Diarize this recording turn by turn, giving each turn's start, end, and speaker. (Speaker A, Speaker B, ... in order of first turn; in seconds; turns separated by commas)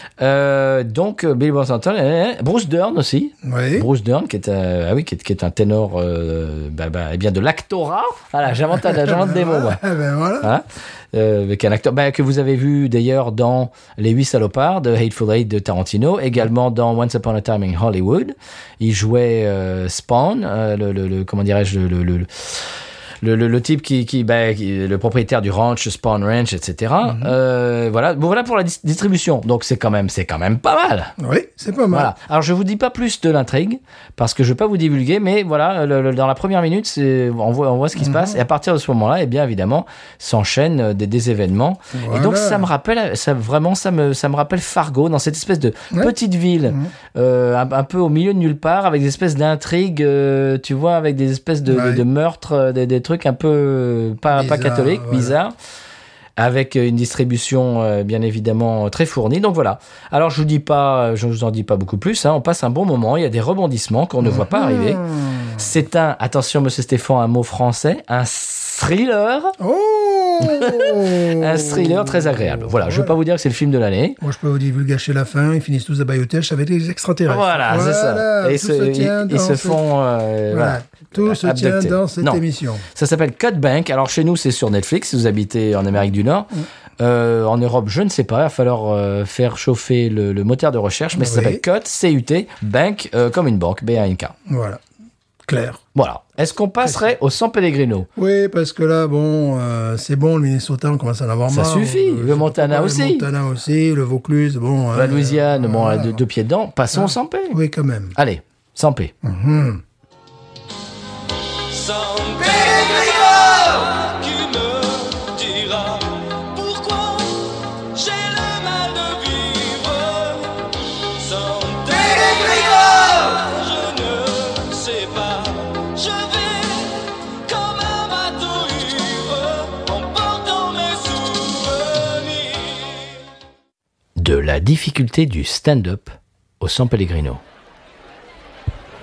Speaker A: 0.2-9.8, Speaker B: 3.4-3.9, Speaker B: 8.7-10.5, Speaker A: 10.4-22.7, Speaker A: 23.2-31.1, Speaker B: 27.0-27.3, Speaker B: 31.2-32.1, Speaker A: 31.9-55.5, Speaker B: 38.0-38.4, Speaker B: 41.9-42.7, Speaker B: 51.7-52.0, Speaker B: 54.3-55.4, Speaker A: 56.4-65.0, Speaker B: 64.2-65.7, Speaker A: 65.5-69.5, Speaker B: 69.6-73.1, Speaker A: 70.4-74.2, Speaker B: 74.2-79.8, Speaker A: 77.3-82.4, Speaker B: 80.5-82.8, Speaker A: 82.9-94.3, Speaker B: 91.1-91.6, Speaker B: 94.5-94.8, Speaker B: 95.5-95.8, Speaker A: 95.9-98.1, Speaker B: 98.2-106.2, Speaker A: 101.5-103.3, Speaker A: 104.9-107.6, Speaker B: 106.9-108.2, Speaker A: 108.2-109.1, Speaker B: 109.2-109.8, Speaker C: 111.7-133.2, Speaker A: 134.2-137.4